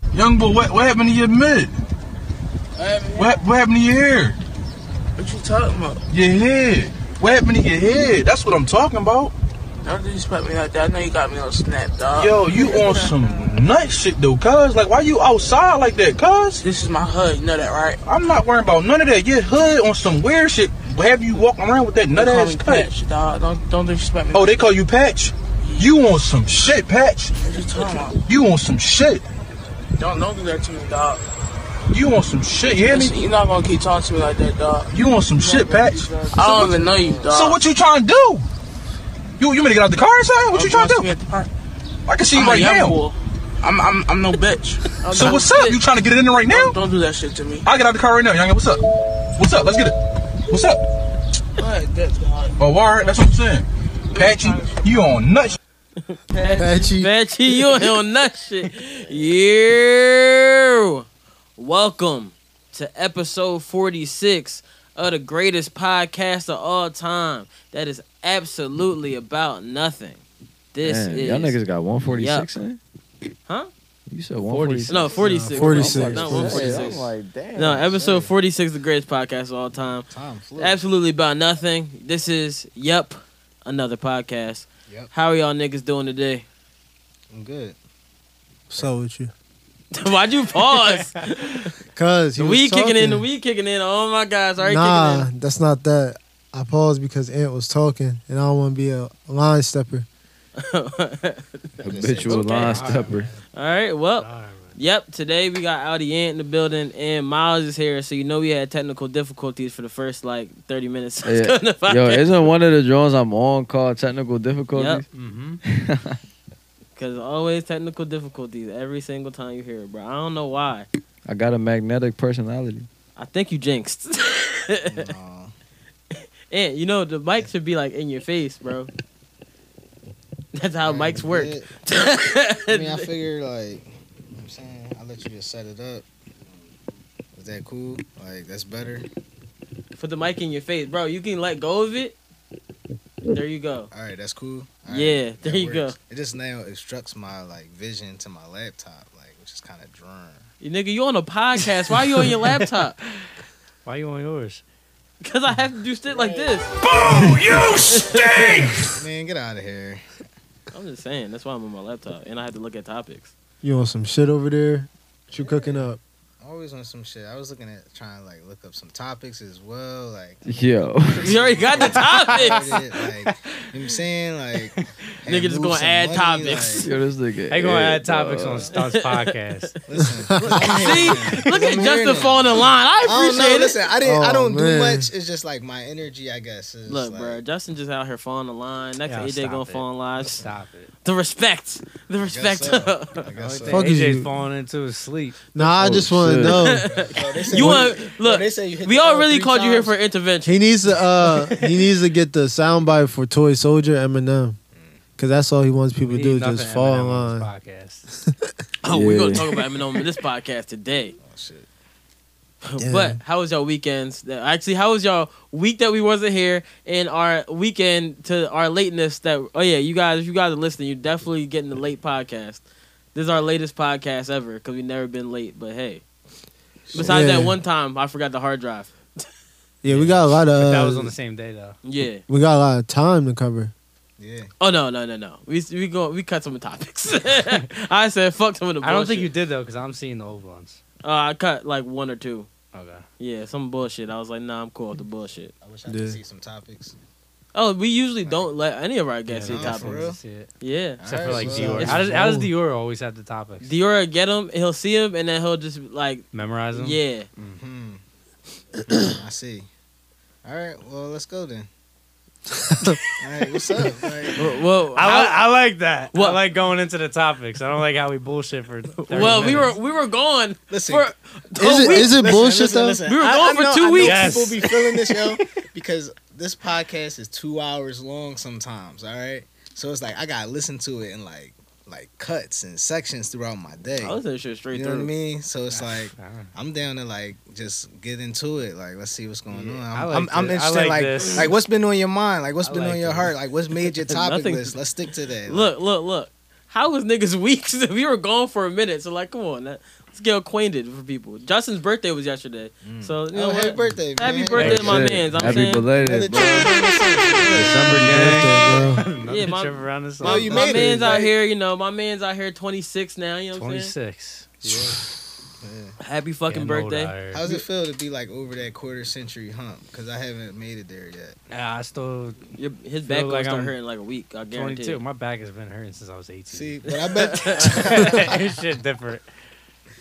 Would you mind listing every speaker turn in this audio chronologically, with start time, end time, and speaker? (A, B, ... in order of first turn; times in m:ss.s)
0:00.1-0:01.7 A
0:02.8-0:03.4 B
0:03.2-0:04.4 A
0:05.2-0:06.0 B
0:06.1-0:09.3 A
0:09.8-0:13.3 B
0:12.2-0:16.7 A
0:16.6-0:18.0 B
0:18.0-0:22.9 A
0:22.1-0:24.6 B
0:24.3-0:27.4 A
0:25.6-0:25.9 B
0:27.4-0:28.2 B
0:28.1-0:29.2 A
0:30.0-0:31.2 B
0:31.9-0:33.2 A
0:32.7-0:37.6 B
0:34.9-0:36.7 A
0:35.7-0:37.3 C
0:37.3-0:38.5 A
0:39.4-0:41.1 A
0:40.5-0:41.5 B
0:42.1-0:43.0 A
0:42.3-0:45.5 B
0:45.0-0:45.8 D
0:45.1-0:46.8 A
0:46.5-0:47.7 B
0:47.6-0:48.8 A
0:49.4-0:50.0 A
0:50.5-0:50.8 A
0:51.6-0:53.3 B
0:52.6-0:55.6 A
0:54.1-0:54.8 B
0:56.1-1:01.1 D
0:56.3-0:56.9 B
0:56.6-0:57.1 E
1:01.6-1:10.2 D
1:10.7-1:11.6 D
1:10.8-1:12.8 C
1:12.1-1:12.5 D
1:14.1-1:15.1 C
1:14.4-1:16.2 F
1:14.9-1:26.5 D
1:15.2-1:16.9 E
1:15.7-1:18.0 C
1:16.6-1:16.9 G
1:17.9-1:18.3 G
1:20.1-1:20.8 G
1:27.3-1:27.8 G
1:28.7-1:29.3 E
1:29.9-1:31.7 D
1:31.9-1:33.3 E
1:32.4-1:35.3 D
1:34.6-1:40.1 E
1:40.6-1:52.5 D
1:41.8-1:43.3 C
1:41.8-1:42.7 G
1:42.4-1:43.4 F
1:44.2-1:44.8 F
1:51.2-1:55.1 C
1:54.7-1:55.0 D
1:55.1-1:55.6 F
1:55.6-1:56.2 C
1:57.0-2:00.9 D
2:01.3-2:02.9 C
2:03.2-2:05.1 D
2:04.9-2:05.5 G
2:06.5-2:08.9 D
2:10.5-2:13.1 D
2:10.8-2:11.7 G
2:12.7-2:16.1 G
2:17.4-2:19.1 G
2:20.0-2:22.2 D
2:23.3-2:23.9 D
2:23.9-2:30.4 G
2:24.9-2:25.9 D
2:30.6-2:33.0 D
2:33.8-2:34.6 F
2:35.2-2:36.7 D
2:36.1-2:36.5 G
2:36.9-2:38.1 A
2:37.6-2:38.7 D
2:39.0-2:40.0 G
2:40.7-2:43.3 D
2:43.6-2:46.0 E
2:45.3-2:45.9 G
2:46.4-2:56.9 G
2:50.5-2:51.3 C
2:51.2-2:52.7 D
2:51.8-2:53.7 F
2:55.3-2:56.9 D
2:56.8-2:58.7 C
2:57.5-2:59.7 F
2:58.7-2:59.4 D
2:59.9-3:07.4 G
3:00.3-3:00.8 E
3:00.4-3:03.8 D
3:00.9-3:01.3 F
3:04.0-3:05.1 E
3:06.9-3:10.4 D
3:09.1-3:10.9 F
3:10.2-3:10.5 G
3:11.0-3:13.3 D
3:12.2-3:13.9 G
3:13.4-3:15.7 F
3:13.7-3:14.3 E
3:15.5-3:16.9 E
3:15.8-3:16.7 C
3:16.5-3:20.7 D
3:16.9-3:20.0 G
3:17.5-3:17.9 E
3:20.5-3:24.6 E
3:21.2-3:21.6 D
3:24.7-3:25.0 G
3:25.2-3:27.5 E
3:26.1-3:28.1 F
3:28.8-3:31.2 D
3:28.9-3:29.4 C
3:31.2-3:31.7 G
3:32.6-3:42.6 D
3:32.8-3:33.2 E
3:43.2-3:46.0 D
3:46.9-3:47.4 G
3:46.9-3:49.0 D
3:47.0-3:47.6 E
3:49.8-3:51.1 E
3:49.9-3:51.8 F
3:51.8-3:52.2 D
3:52.3-3:53.7 E
3:54.2-3:54.5 G
3:54.6-3:59.3 D
3:58.8-4:00.8 F
4:01.0-4:02.5 D
4:02.7-4:03.0 F
4:03.2-4:05.5 D
4:05.6-4:07.0 G
4:05.9-4:06.2 E
4:07.5-4:10.0 D
4:08.2-4:08.5 G
4:09.3-4:10.5 F
4:09.5-4:10.2 G
4:10.6-4:11.9 D
4:11.0-4:12.0 G
4:11.0-4:13.7 F
4:11.3-4:12.5 E
4:13.6-4:17.3 D
4:16.3-4:17.6 F
4:17.4-4:18.0 G
4:18.9-4:19.7 G
4:20.4-4:21.7 G
4:22.5-4:23.0 E
4:23.2-4:24.4 G
4:24.4-4:25.4 D
4:25.0-4:29.8 F
4:26.1-4:26.4 D
4:29.0-4:32.2 D
4:29.1-4:29.7 G
4:30.7-4:31.1 G
4:31.6-4:33.0 E
4:31.7-4:44.2 G
4:33.0-4:34.7 D
4:34.0-4:34.7 F
4:44.0-4:45.1 D
4:44.7-4:55.7 G
4:45.7-4:46.5 F
4:49.6-4:51.6 F
4:52.6-4:53.3 F
4:53.9-4:54.7 D
4:55.5-5:05.9 D
5:02.8-5:08.9 G
5:04.6-5:06.8 C
5:07.5-5:08.5 C
5:07.6-5:09.0 E
5:08.9-5:11.1 F
5:09.2-5:13.9 D
5:10.2-5:11.3 G
5:13.5-5:15.0 F
5:15.6-5:16.0 G
5:16.0-5:17.6 D
5:16.5-5:17.5 F
5:17.3-5:21.4 G
5:21.5-5:22.5 F
5:22.6-5:25.0 D
5:23.0-5:23.7 F
5:24.5-5:26.9 F
5:26.5-5:28.4 G
5:27.0-5:28.1 D
5:27.5-5:29.3 F